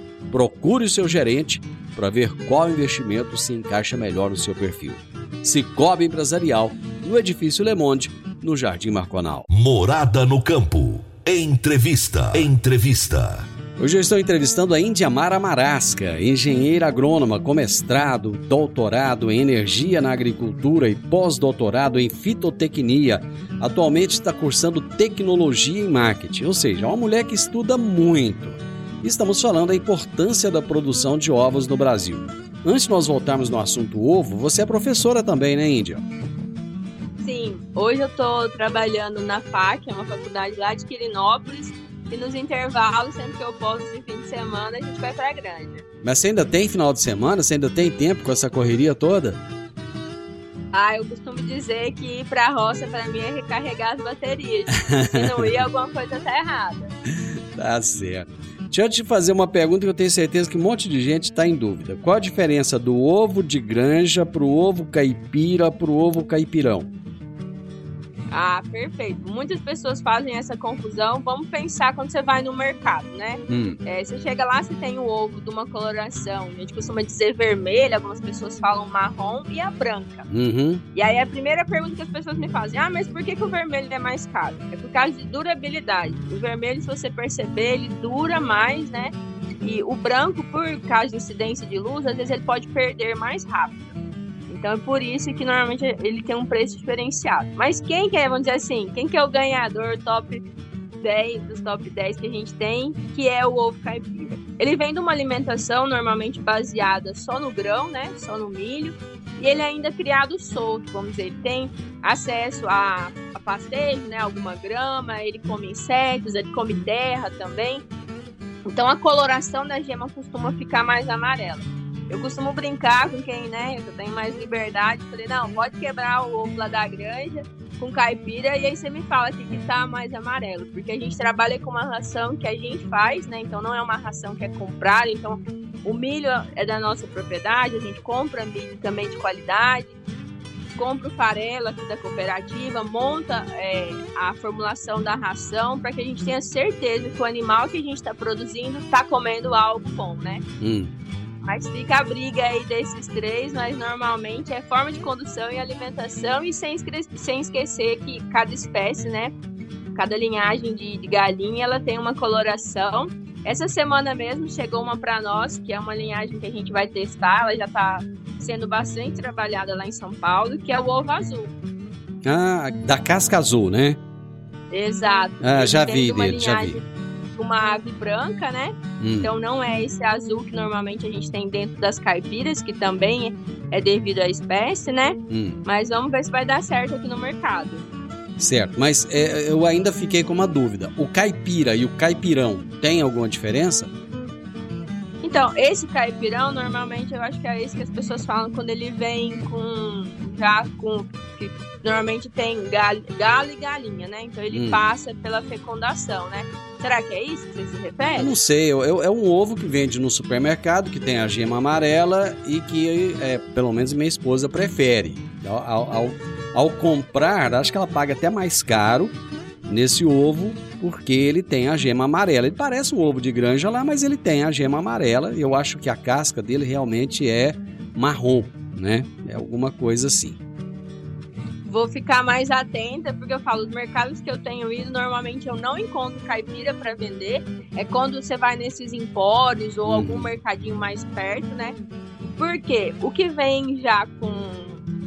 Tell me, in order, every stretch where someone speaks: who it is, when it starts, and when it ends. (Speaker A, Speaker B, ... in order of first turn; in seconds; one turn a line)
Speaker A: 0.3-9.5
Speaker B: 9.5-13.5
Speaker A: 13.8-36.0
Speaker C: 37.2-45.8
Speaker A: 46.0-49.4
Speaker C: 50.7-56.9
Speaker A: 54.9-55.5
Speaker A: 57.5-66.9
Speaker C: 68.3-80.3
Speaker A: 73.5-73.8
Speaker A: 80.3-80.8
Speaker C: 80.9-93.9
Speaker C: 94.5-100.4
Speaker C: 101.0-117.8
Speaker C: 118.7-139.9
Speaker C: 140.8-150.4
Speaker A: 150.6-150.9
Speaker C: 151.4-159.3
Speaker C: 159.9-171.5
Speaker A: 172.2-174.0
Speaker C: 174.7-187.8
Speaker A: 175.4-176.8
Speaker A: 179.0-179.3
Speaker A: 185.3-185.6
Speaker A: 188.4-193.9
Speaker C: 195.2-208.3
Speaker A: 204.5-204.8
Speaker A: 208.2-219.1
Speaker A: 219.7-230.4
Speaker C: 231.6-241.8
Speaker A: 239.8-240.3
Speaker C: 242.3-244.8